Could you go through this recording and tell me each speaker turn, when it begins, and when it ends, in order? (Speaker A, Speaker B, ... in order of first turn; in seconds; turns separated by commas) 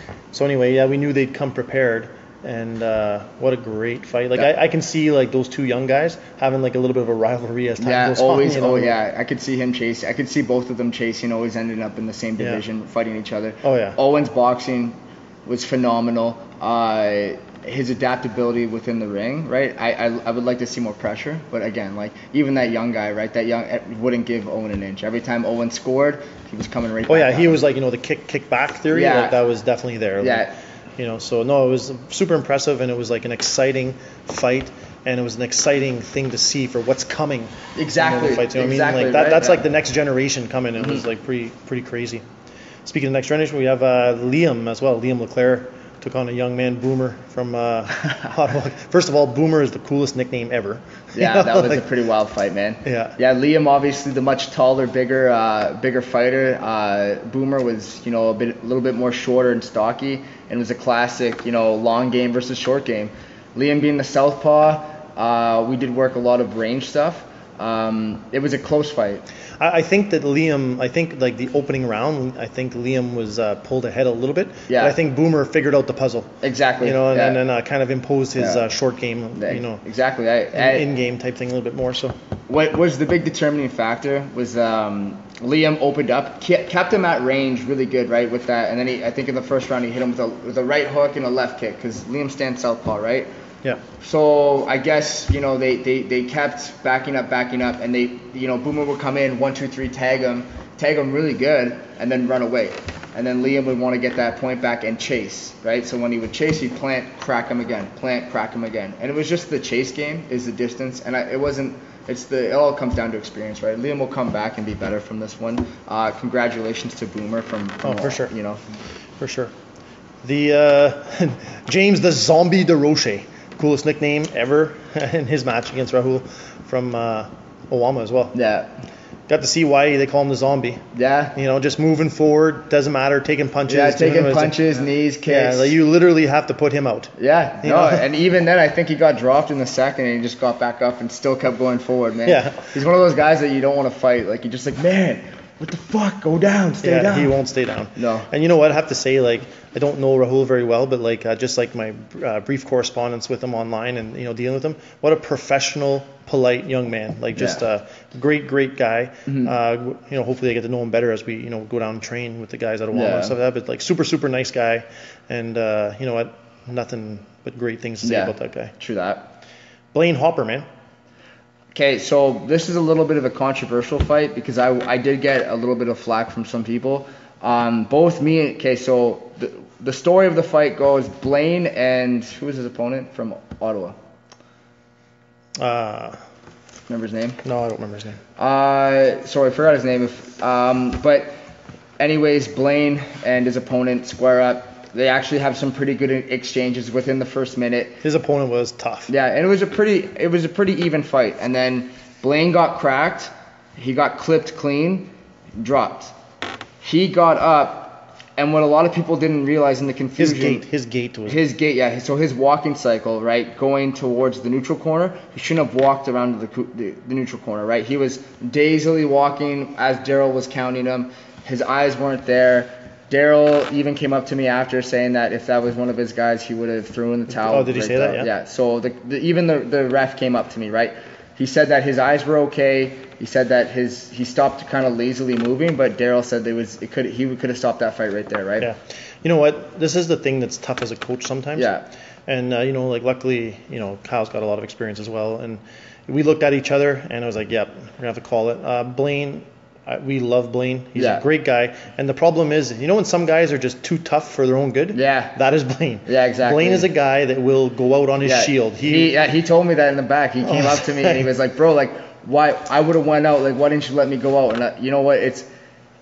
Speaker A: 0.3-8.9, Speaker B: 7.8-27.6, Speaker A: 13.6-14.0, Speaker A: 27.1-42.2, Speaker B: 28.9-29.4, Speaker B: 30.2-30.6, Speaker B: 37.8-39.6, Speaker B: 40.8-41.0, Speaker A: 42.9-51.9, Speaker B: 51.1-69.2, Speaker A: 52.9-53.1, Speaker A: 69.6-79.8, Speaker B: 74.7-75.0, Speaker B: 76.4-77.4, Speaker B: 78.4-78.7, Speaker B: 79.4-80.9, Speaker A: 80.5-82.2, Speaker B: 82.5-93.3, Speaker B: 94.0-118.6, Speaker A: 117.8-118.3, Speaker A: 119.2-119.5, Speaker A: 120.2-128.3, Speaker B: 128.3-128.9, Speaker A: 129.3-130.8, Speaker B: 130.9-131.4, Speaker A: 131.3-134.6, Speaker B: 133.7-135.8, Speaker A: 135.3-138.0, Speaker B: 137.2-147.4, Speaker A: 142.3-142.8, Speaker A: 146.8-168.7, Speaker B: 148.0-148.3, Speaker B: 157.3-157.6, Speaker B: 159.3-159.5, Speaker B: 162.9-163.4, Speaker B: 168.0-169.3, Speaker A: 169.9-170.7, Speaker B: 171.7-184.0, Speaker A: 185.6-186.2, Speaker B: 186.9-187.4, Speaker A: 187.4-188.2, Speaker B: 188.4-191.4, Speaker B: 192.0-198.0, Speaker A: 198.0-199.1, Speaker B: 199.1-206.2, Speaker B: 206.8-210.7, Speaker A: 210.2-211.4, Speaker B: 211.3-238.7, Speaker A: 227.5-228.3, Speaker A: 238.6-241.7, Speaker B: 241.6-241.9, Speaker A: 242.3-259.1, Speaker B: 250.9-251.3, Speaker B: 254.9-255.4, Speaker B: 256.1-256.9, Speaker B: 258.2-265.5, Speaker A: 260.4-261.2